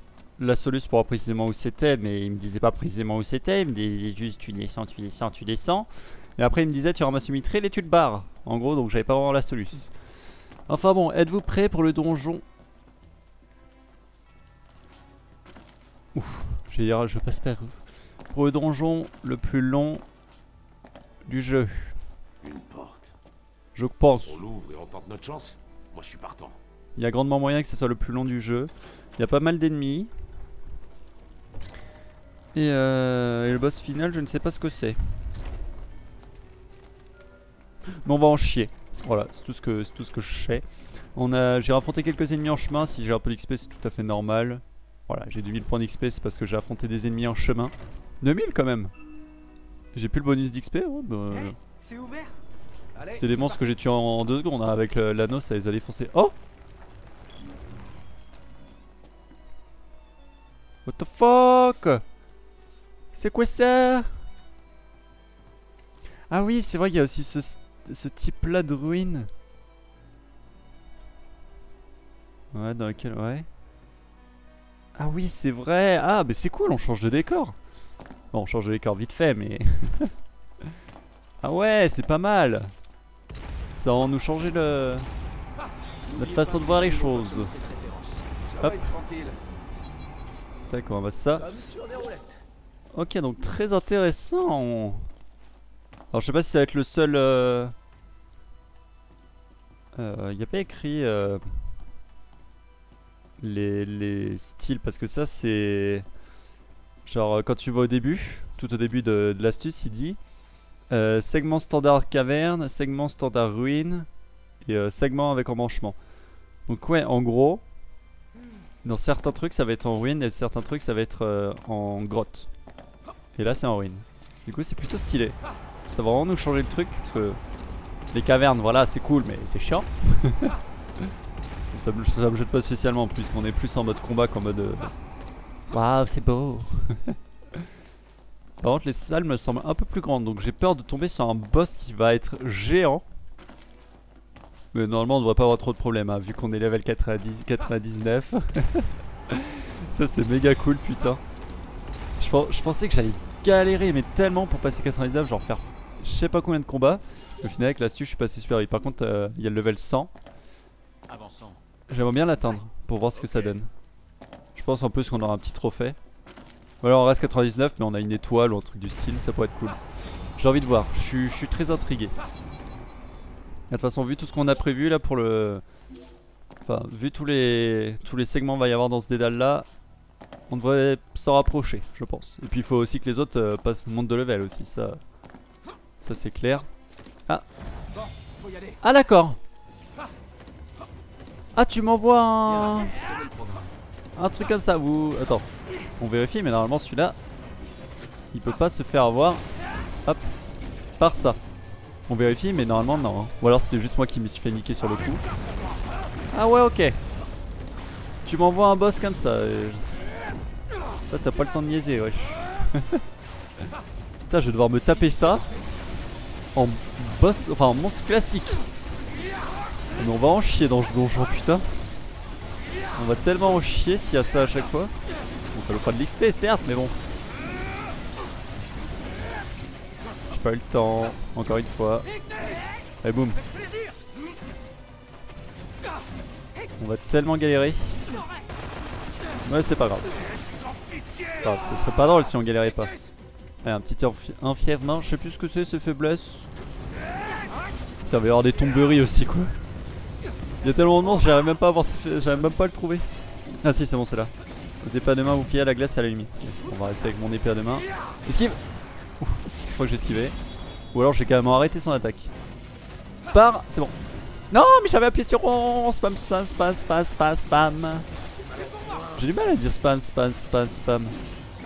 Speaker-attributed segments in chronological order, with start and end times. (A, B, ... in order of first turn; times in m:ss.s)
0:00.4-0:09.9 A
0:10.7-0:12.4 A
0:16.1-0:17.8 A
0:18.3-0:20.0 A
0:21.2-0:22.0 A
0:22.4-0:23.1 B
0:23.7-0:24.4 A
0:24.2-0:26.6 B
0:27.0-0:30.1 A
0:32.5-0:35.1 A
0:38.0-0:48.9 A
0:49.9-0:51.6 A
0:51.3-0:52.4 C
0:52.9-0:53.8 C
0:53.1-0:56.3 A
1:00.8-1:02.0 A
1:03.1-1:04.1 A
1:06.3-1:09.3 A
1:12.5-1:13.5 A
1:15.0-1:17.6 A
1:18.3-1:20.1 A
1:21.4-1:22.7 A
1:23.8-1:25.1 A
1:26.1-1:29.4 C
1:26.1-1:27.5 A
1:28.6-1:28.9 A
1:30.7-1:31.5 A
1:31.3-1:32.4 C
1:32.9-1:35.1 A
1:36.1-1:37.7 A
1:39.9-1:41.4 A
1:43.4-1:46.0 A
1:47.0-1:50.2 A
1:50.9-1:54.1 A
1:54.6-1:56.0 A
1:56.7-1:57.6 A
1:58.8-2:02.5 A
2:03.4-2:05.4 A
2:05.9-2:07.4 A
2:08.1-2:11.1 A
2:11.7-2:14.9 A
2:15.7-2:17.6 A
2:18.6-2:23.0 A
2:24.7-2:31.2 A
2:32.2-2:40.1 A
2:41.1-2:41.6 C
2:41.9-2:43.7 A
2:44.5-2:46.0 A
2:46.8-2:49.8 A
2:50.4-2:52.2 A
2:53.7-2:55.6 A
2:56.6-2:59.7 A
3:00.5-3:05.0 A
3:06.0-3:06.7 A
3:07.9-3:08.8 C
3:08.8-3:09.4 A
3:11.5-3:13.0 A
3:12.4-3:13.7 C
3:14.2-3:15.5 A
3:16.0-3:17.2 A
3:18.3-3:19.4 A
3:20.0-3:20.3 A
3:21.0-3:21.4 A
3:22.1-3:25.2 A
3:26.3-3:27.0 A
3:28.2-3:29.9 A
3:31.1-3:33.0 A
3:34.3-3:35.5 A
3:36.5-3:38.6 A
3:40.0-3:41.7 A
3:43.0-3:44.9 A
3:45.5-3:47.0 A
3:50.3-3:52.1 A
3:53.0-3:53.4 A
3:53.4-3:54.0 C
3:56.8-3:58.1 A
3:59.4-4:00.2 A
4:00.8-4:01.3 B
4:01.4-4:02.9 A
4:03.6-4:06.5 A
4:08.0-4:09.6 A
4:10.6-4:13.0 A
4:13.6-4:18.6 A
4:19.2-4:20.4 A
4:20.9-4:22.3 A
4:23.3-4:23.9 A
4:24.5-4:28.1 A
4:28.5-4:29.2 B
4:28.5-4:29.0 C
4:29.1-4:31.2 A